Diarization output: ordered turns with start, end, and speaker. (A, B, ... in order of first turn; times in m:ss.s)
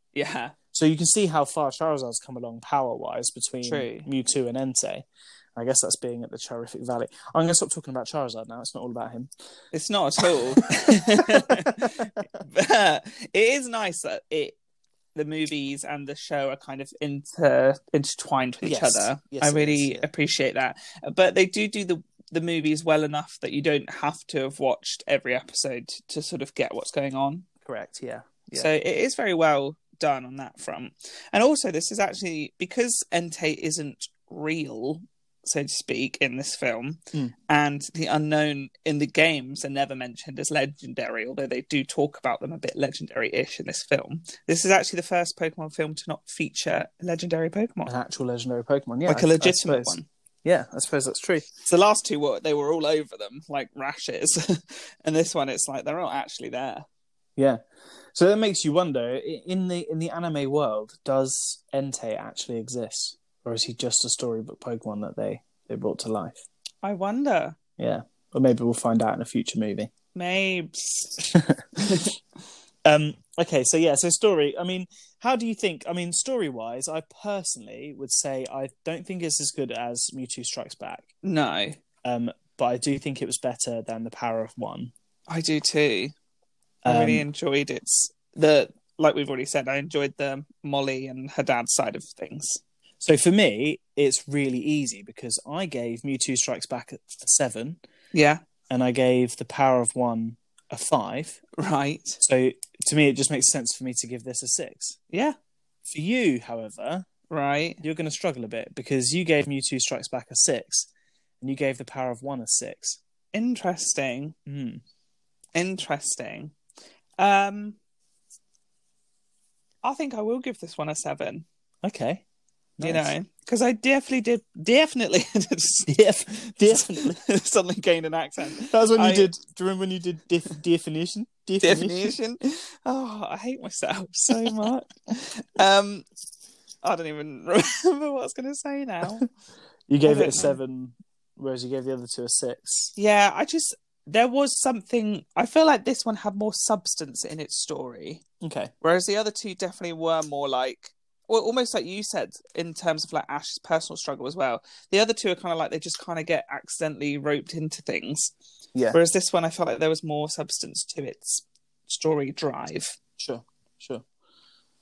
0:00.2-0:00.6 A
0:00.7-0:05.0 B
0:03.6-0:04.1 A
0:05.6-0:09.3 B
0:09.7-0:14.6 A
0:11.2-0:12.1 B
0:15.2-0:27.5 A
0:18.6-0:20.1 B
0:27.6-0:28.7 B
0:28.6-0:47.9 A
0:47.9-0:51.5 B
0:49.1-0:50.1 A
0:51.6-0:56.9 A
0:58.1-1:06.4 B
1:06.8-1:07.6 A
1:07.8-1:09.9 B
1:10.2-1:11.3 A
1:11.3-1:12.1 B
1:11.8-1:12.1 A
1:12.8-1:21.1 B
1:21.2-1:21.8 A
1:22.0-1:24.9 B
1:25.3-1:26.1 A
1:26.8-1:27.3 B
1:26.8-1:32.6 A
1:33.0-1:37.8 B
1:38.1-1:38.4 A
1:38.7-1:41.4 B
1:41.6-1:42.2 A
1:42.2-1:45.0 B
1:45.1-1:45.4 A
1:45.9-1:47.1 B
1:47.3-1:47.8 A
1:47.8-1:50.9 B
1:51.4-1:53.0 B
1:53.3-1:54.4 A
1:54.5-1:54.8 B
1:55.6-1:56.5 A
1:57.2-1:57.8 A
1:59.8-2:01.4 A
2:01.8-2:02.2 B
2:02.8-2:03.1 B
2:02.8-2:05.9 A
2:05.9-2:07.2 B
2:06.7-2:09.3 A
2:08.7-2:12.2 B
2:11.6-2:16.1 A
2:14.3-2:14.6 B
2:16.8-2:19.3 A
2:19.9-2:22.9 B
2:20.0-2:20.6 A
2:23.0-2:28.2 A
2:28.4-2:28.7 B
2:28.8-2:38.3 A
2:38.9-2:43.0 A
2:43.2-2:44.0 B